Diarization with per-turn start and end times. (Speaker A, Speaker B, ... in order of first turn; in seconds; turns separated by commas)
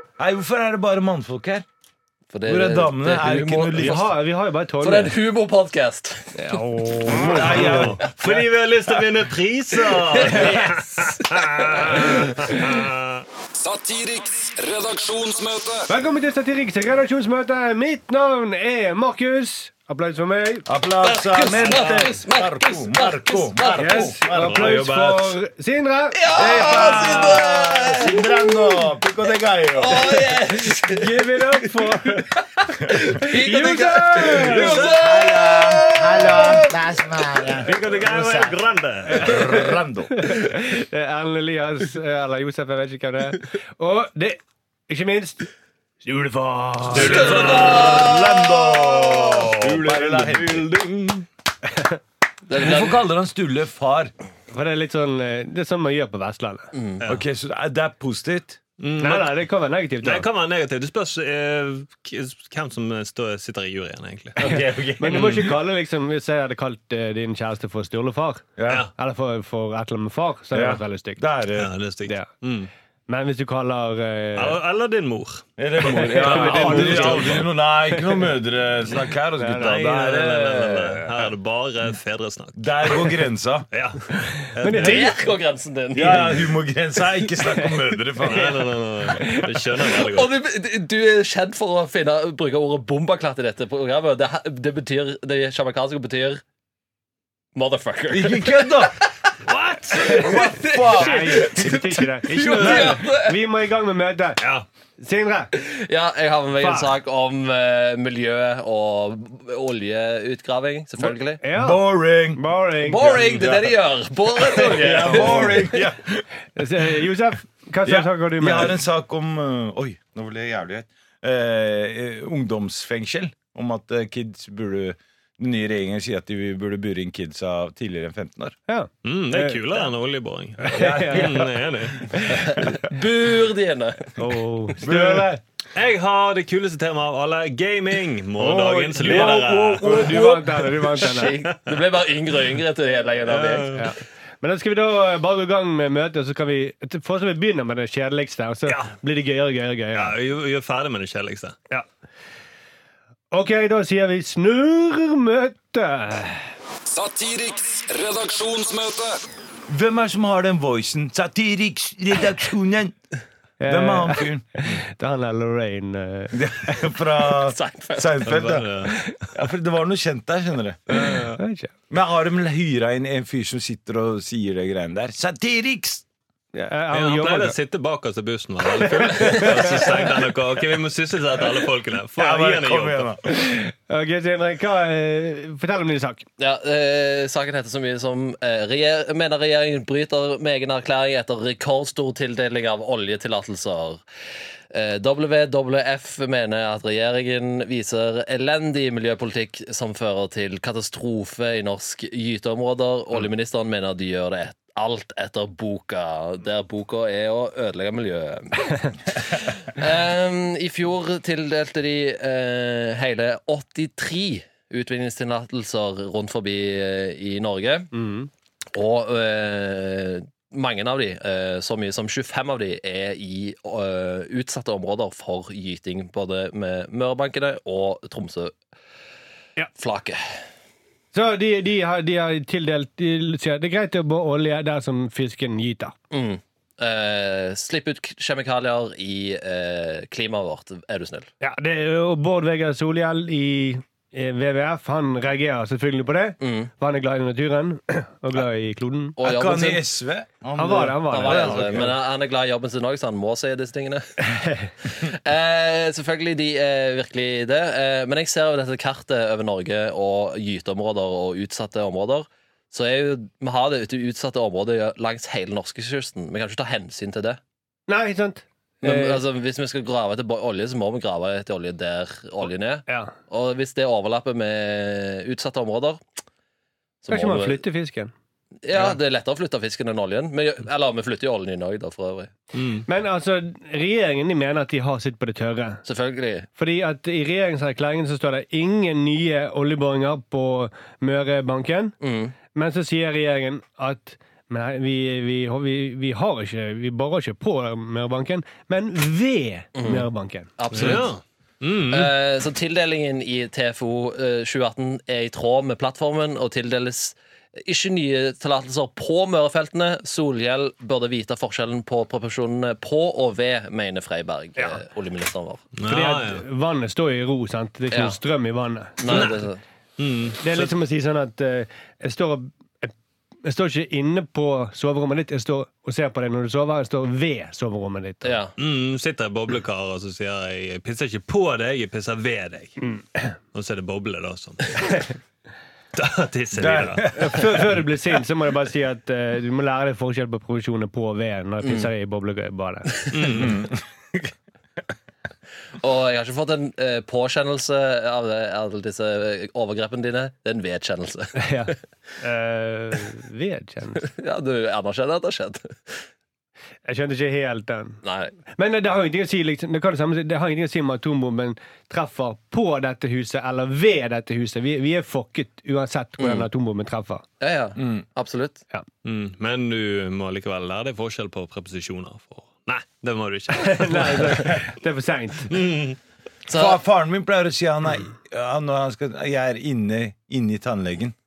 Speaker A: 0.2-1.6, Speaker B: 2.3-4.0, Speaker A: 2.5-4.1, Speaker C: 3.8-5.2, Speaker B: 4.8-7.6, Speaker C: 6.3-8.0, Speaker A: 7.1-8.1, Speaker D: 7.3-13.2, Speaker B: 9.9-12.3, Speaker C: 10.2-10.8, Speaker C: 12.1-12.6, Speaker E: 13.6-15.9, Speaker C: 15.9-20.7, Speaker A: 20.7-25.1, Speaker B: 21.0-24.1, Speaker D: 21.6-22.1, Speaker C: 23.8-27.4, Speaker D: 24.3-25.3, Speaker B: 26.2-28.9, Speaker A: 26.3-30.4, Speaker B: 29.8-31.1, Speaker C: 30.7-32.3, Speaker B: 32.2-36.7, Speaker C: 33.1-35.0, Speaker A: 33.8-40.3, Speaker D: 37.6-39.5, Speaker C: 39.1-45.5, Speaker C: 46.0-47.3, Speaker A: 46.9-50.7, Speaker D: 46.9-48.1, Speaker B: 47.0-49.5, Speaker D: 49.6-51.3, Speaker B: 52.5-53.0, Speaker A: 52.6-54.1, Speaker C: 54.5-56.7, Speaker B: 56.7-57.0, Speaker A: 57.0-58.6, Speaker D: 58.8-59.4, Speaker C: 59.0-60.3, Speaker D: 60.0-64.6, Speaker A: 64.4-65.6, Speaker C: 64.5-71.2, Speaker D: 65.1-65.5, Speaker A: 68.6-68.9, Speaker A: 70.5-71.7, Speaker D: 71.6-72.7, Speaker C: 73.1-74.6, Speaker D: 74.4-77.5, Speaker A: 75.6-81.3, Speaker C: 75.8-78.2, Speaker C: 79.4-79.7, Speaker D: 79.5-83.2, Speaker A: 82.6-83.7, Speaker D: 83.7-85.2, Speaker C: 84.2-85.2, Speaker B: 84.7-86.5, Speaker A: 85.9-88.6, Speaker C: 87.5-87.7, Speaker D: 88.2-90.4, Speaker C: 89.1-89.7, Speaker B: 90.0-96.4, Speaker B: 97.5-99.0, Speaker A: 98.1-99.1, Speaker D: 99.4-100.5, Speaker A: 100.0-101.9, Speaker B: 100.0-103.4, Speaker C: 100.9-104.4, Speaker D: 102.5-103.0, Speaker D: 104.4-104.7, Speaker C: 105.0-105.5, Speaker B: 105.6-111.4, Speaker C: 106.6-106.9, Speaker C: 111.0-113.2, Speaker A: 111.5-113.7, Speaker B: 112.8-115.8, Speaker A: 114.3-116.7, Speaker C: 116.6-118.8, Speaker A: 117.8-128.6, Speaker C: 128.7-129.9, Speaker D: 129.0-132.1, Speaker C: 130.6-131.5, Speaker A: 130.7-132.9, Speaker C: 132.1-132.7, Speaker B: 132.4-134.2, Speaker C: 134.2-135.4, Speaker A: 134.7-135.4, Speaker D: 135.8-140.3, Speaker A: 138.4-140.6, Speaker C: 138.4-141.3, Speaker B: 140.9-143.8, Speaker D: 143.2-143.9, Speaker C: 143.8-150.2, Speaker D: 148.7-148.9, Speaker D: 149.9-151.6, Speaker C: 153.3-156.5, Speaker E: 156.9-159.2, Speaker A: 159.7-162.9, Speaker C: 163.6-166.8, Speaker A: 163.7-164.8, Speaker A: 166.3-171.1, Speaker B: 167.4-168.1, Speaker D: 168.2-169.0, Speaker C: 170.9-171.7, Speaker D: 170.9-171.3, Speaker A: 171.9-176.1, Speaker C: 176.5-177.6, Speaker D: 176.9-183.1, Speaker C: 178.8-179.9, Speaker B: 179.2-179.9, Speaker A: 182.2-183.2, Speaker C: 183.2-186.2, Speaker B: 186.4-194.0, Speaker B: 194.7-217.9, Speaker C: 217.9-218.3, Speaker B: 218.7-228.6, Speaker B: 229.8-230.2, Speaker C: 231.1-235.9, Speaker B: 236.1-241.3, Speaker C: 241.4-249.2, Speaker B: 246.4-246.7, Speaker B: 249.2-249.8, Speaker A: 249.2-251.9, Speaker C: 250.6-251.8, Speaker B: 251.1-254.2, Speaker C: 254.3-254.7, Speaker B: 254.8-267.4, Speaker C: 267.9-269.2, Speaker B: 268.8-276.0, Speaker C: 272.9-273.1, Speaker B: 277.0-277.6, Speaker C: 277.1-278.1, Speaker B: 278.6-282.3, Speaker D: 282.5-282.8, Speaker C: 282.9-285.8, Speaker B: 285.9-286.5, Speaker C: 286.6-291.9, Speaker B: 292.0-292.4, Speaker C: 292.5-300.5, Speaker B: 299.8-300.1, Speaker B: 300.6-301.1, Speaker D: 300.7-302.1, Speaker B: 301.9-315.7, Speaker D: 315.8-316.4, Speaker C: 315.9-319.3, Speaker B: 317.9-318.2, Speaker B: 319.0-319.6, Speaker D: 319.1-319.4, Speaker D: 320.0-320.7, Speaker C: 320.4-328.4, Speaker B: 328.2-328.5, Speaker D: 328.6-332.8, Speaker C: 332.8-333.3, Speaker D: 333.5-335.1, Speaker D: 335.9-337.6, Speaker A: 336.5-337.6, Speaker C: 337.1-343.0, Speaker B: 341.6-341.9, Speaker D: 343.1-343.6, Speaker A: 343.3-344.3, Speaker B: 345.8-351.5, Speaker C: 351.4-354.1, Speaker B: 354.0-356.0, Speaker C: 356.9-367.2, Speaker B: 358.0-358.3, Speaker B: 366.2-366.5, Speaker B: 367.4-368.6, Speaker A: 367.8-368.0, Speaker D: 369.0-374.6, Speaker C: 373.6-375.6, Speaker D: 375.5-376.0, Speaker B: 376.5-376.8, Speaker A: 376.5-381.1